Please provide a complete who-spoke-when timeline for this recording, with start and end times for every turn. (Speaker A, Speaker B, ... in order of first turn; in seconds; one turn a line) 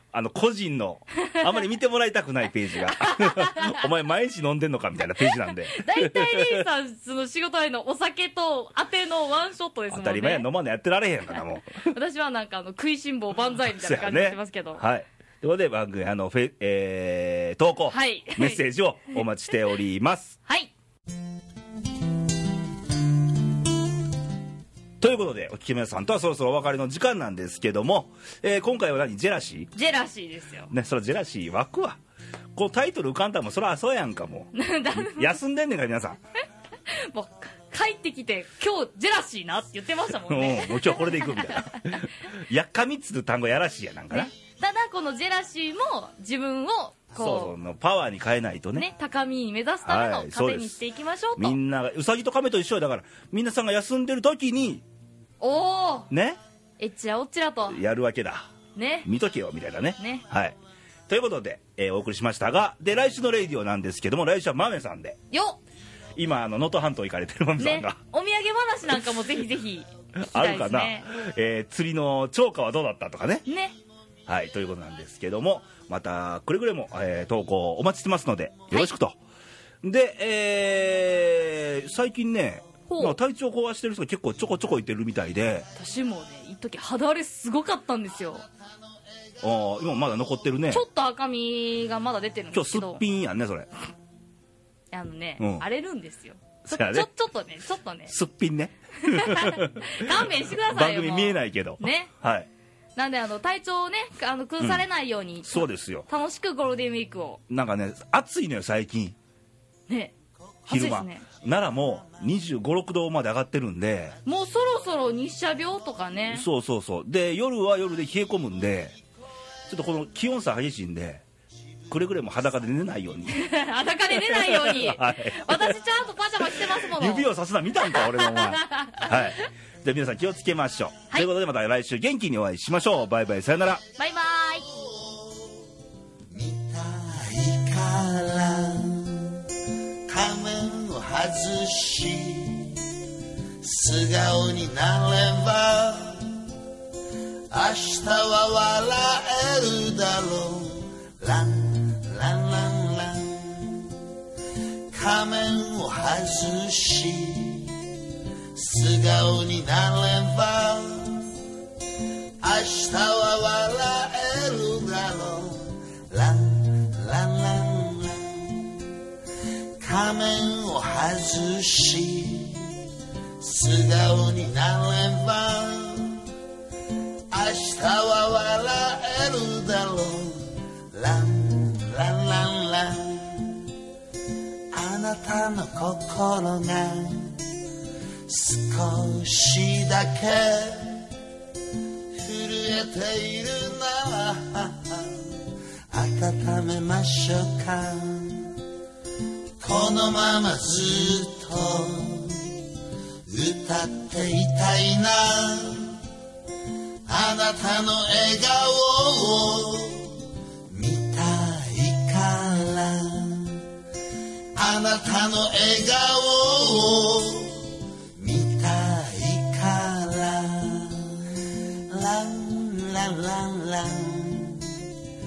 Speaker A: 0.1-6.7
Speaker B: 2.9-3.9
Speaker B: 5.7-10.5
Speaker A: 9.9-11.9
Speaker B: 11.8-14.8
Speaker A: 13.8-20.4
Speaker B: 17.9-19.2
Speaker B: 20.4-20.7
Speaker A: 25.0-29.7
Speaker B: 29.7-30.7
Speaker A: 30.7-32.0
Speaker A: 32.5-36.2
Speaker B: 34.5-35.4
Speaker B: 36.9-42.0
Speaker A: 40.3-44.3
Speaker B: 44.1-47.5
Speaker A: 47.1-48.9
Speaker B: 48.7-51.6
Speaker A: 49.8-50.8
Speaker A: 51.4-54.8
Speaker B: 55.4-56.1
Speaker A: 56.1-56.4
Speaker B: 56.8-57.8
Speaker A: 57.7-58.5
Speaker B: 58.7-59.1
Speaker A: 59.0-60.6
Speaker B: 60.0-60.2
Speaker A: 61.1-65.2
Speaker B: 65.3-65.6
Speaker A: 66.2-68.0
Speaker B: 67.6-71.1
Speaker A: 70.2-73.4
Speaker B: 73.5-73.8
Speaker A: 74.3-79.2
Speaker A: 79.8-85.7
Speaker B: 82.9-83.2
Speaker B: 85.7-88.4
Speaker A: 89.4-90.8
Speaker B: 90.7-93.0
Speaker A: 92.5-93.7
Speaker B: 94.9-98.2
Speaker A: 95.4-95.6
Speaker A: 96.7-97.1
Speaker A: 98.1-102.5
Speaker B: 99.0-102.1
Speaker B: 103.0-107.4
Speaker A: 105.4-106.1
Speaker A: 107.5-109.1
Speaker B: 109.9-110.1
Speaker B: 110.7-111.3
Speaker A: 110.7-114.2
Speaker B: 114.2-116.5
Speaker A: 116.3-119.0
Speaker A: 119.7-121.2
Speaker A: 121.9-123.5
Speaker B: 123.3-127.3
Speaker A: 124.1-125.8
Speaker A: 126.5-133.8
Speaker B: 127.8-129.4
Speaker B: 134.0-134.7
Speaker C: 134.8-135.5
Speaker C: 136.3-139.4
Speaker C: 140.1-142.8
Speaker C: 143.6-146.4
Speaker C: 147.5-153.9
Speaker C: 154.9-157.8
Speaker C: 158.5-161.3
Speaker C: 162.4-168.8
Speaker C: 169.8-172.8
Speaker C: 173.4-176.2
Speaker C: 177.3-183.6
Speaker C: 184.7-187.4
Speaker C: 188.3-191.1
Speaker C: 192.2-198.6
Speaker C: 199.6-202.6
Speaker C: 203.3-206.0
Speaker C: 207.1-213.6
Speaker C: 214.6-224.8